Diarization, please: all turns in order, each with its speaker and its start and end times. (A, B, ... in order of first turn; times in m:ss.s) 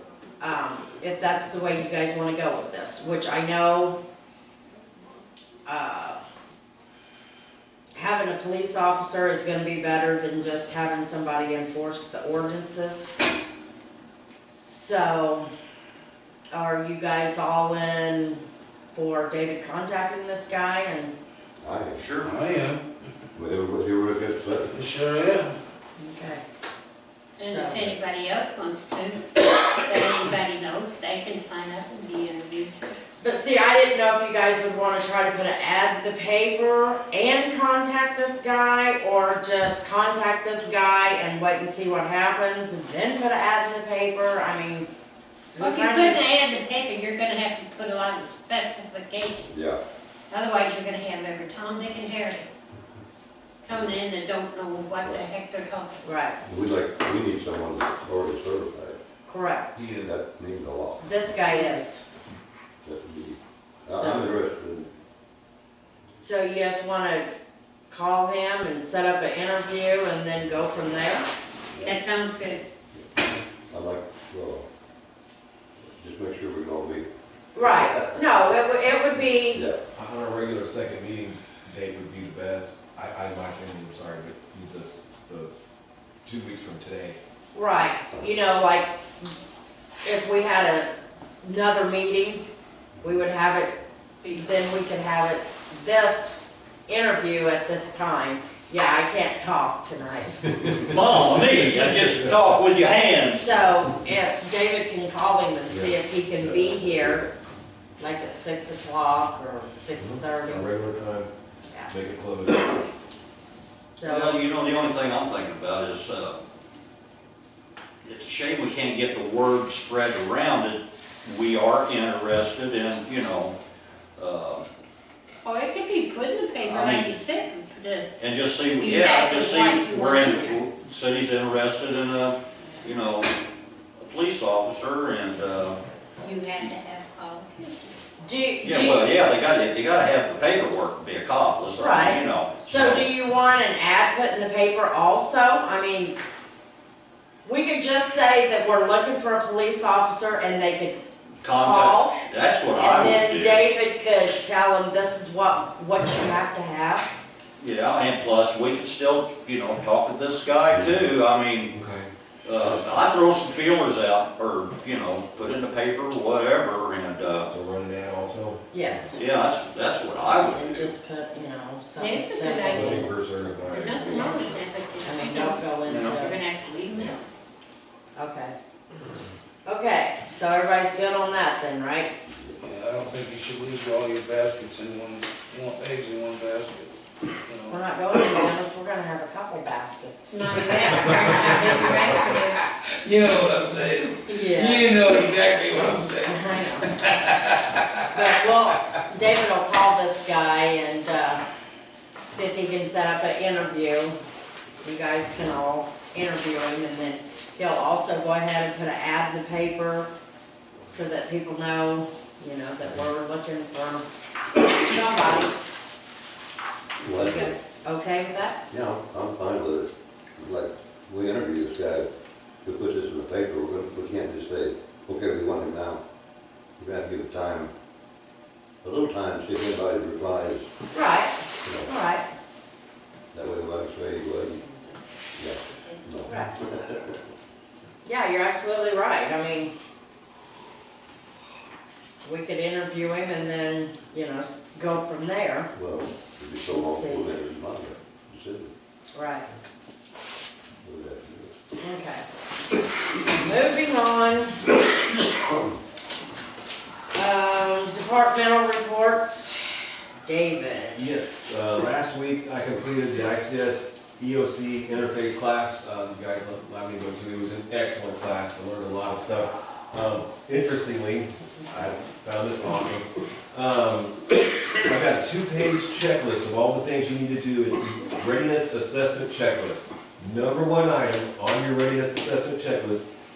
0:00.4-0:04.0 A
0:05.6-0:06.2 A
0:08.0-0:13.1 A
0:14.6-0:15.5 A
0:16.5-0:21.1 A
0:21.6-0:22.0 B
0:21.9-0:22.3 C
0:22.2-0:22.8 D
0:23.3-0:24.7 B
0:24.7-0:25.6 D
0:26.0-0:26.4 A
0:27.4-0:32.7 E
0:27.4-0:27.9 A
0:33.2-0:44.9 A
0:45.5-0:46.2 A
0:45.6-0:49.5 E
0:49.5-0:49.8 B
0:50.3-0:52.5 E
0:53.6-0:56.0 E
0:53.7-0:54.0 B
0:55.0-0:55.3 B
0:56.0-0:56.4 A
0:56.4-0:59.0 B
0:59.2-0:59.8 A
0:59.8-1:00.2 F
1:00.0-1:01.0 B
1:01.0-1:02.0 A
1:02.8-1:04.9 B
1:03.9-1:04.4 A
1:06.2-1:07.3 A
1:07.9-1:11.3 A
1:11.7-1:12.0 B
1:11.8-1:12.7 E
1:13.7-1:14.7 B
1:15.8-1:18.6 B
1:17.5-1:19.6 A
1:19.4-1:19.8 B
1:19.9-1:25.5 F
1:26.2-1:27.2 F
1:27.5-1:29.3 A
1:30.0-1:30.9 A
1:31.4-1:32.4 A
1:33.0-1:40.4 A
1:40.4-1:42.4 F
1:40.8-1:43.4 C
1:43.3-1:47.2 A
1:45.7-1:47.3 F
1:48.0-1:50.7 A
1:50.0-1:51.3 F
1:51.9-1:52.8 F
1:54.0-1:54.4 A
1:54.0-1:56.4 C
1:58.0-2:03.6 C
2:04.2-2:04.6 C
2:05.4-2:08.1 E
2:06.6-2:07.2 C
2:08.2-2:13.3 C
2:08.8-2:10.6 E
2:14.0-2:15.8 C
2:16.2-2:17.9 E
2:18.2-2:19.1 A
2:18.6-2:23.1 C
2:21.7-2:26.1 A
2:27.4-2:31.0 A
2:31.4-2:33.6 C
2:31.5-2:32.2 A
2:32.8-2:37.1 A
2:37.6-2:41.7 C
2:41.7-2:42.1 F
2:42.4-2:47.5 C
2:47.5-2:49.1 F
2:48.7-2:49.2 A
2:49.2-2:50.9 C
2:50.4-2:53.1 A
2:52.0-2:53.1 E
2:52.6-2:54.7 F
2:53.6-2:57.2 E
2:55.0-2:56.4 A
2:55.8-2:56.2 C
2:58.2-2:58.5 A
2:59.6-3:02.1 A
3:02.6-3:08.4 D
3:07.7-3:11.2 A
3:10.3-3:12.6 E
3:10.8-3:18.2 D
3:14.2-3:14.9 A
3:16.2-3:16.9 A
3:18.1-3:21.4 A
3:22.2-3:24.2 A
3:24.8-3:30.1 A
3:30.9-3:34.0 A
3:34.6-3:35.5 A
3:37.0-3:37.5 B
3:37.0-3:38.6 A
3:38.7-3:42.1 B
3:42.6-3:46.0 B
3:46.8-3:47.7 B
3:48.8-3:50.7 B
3:50.9-3:52.2 A
3:51.6-3:51.9 B
3:53.3-3:54.6 B
3:55.4-3:57.2 B
3:56.2-3:56.5 A
3:58.0-3:59.7 A
4:02.2-4:05.7 A
4:05.7-4:08.7 B
4:06.7-4:07.3 A
4:09.1-4:09.5 A
4:10.8-4:11.5 B
4:11.8-4:12.2 A
4:13.3-4:14.6 A
4:17.1-4:21.0 A
4:21.0-4:43.0 F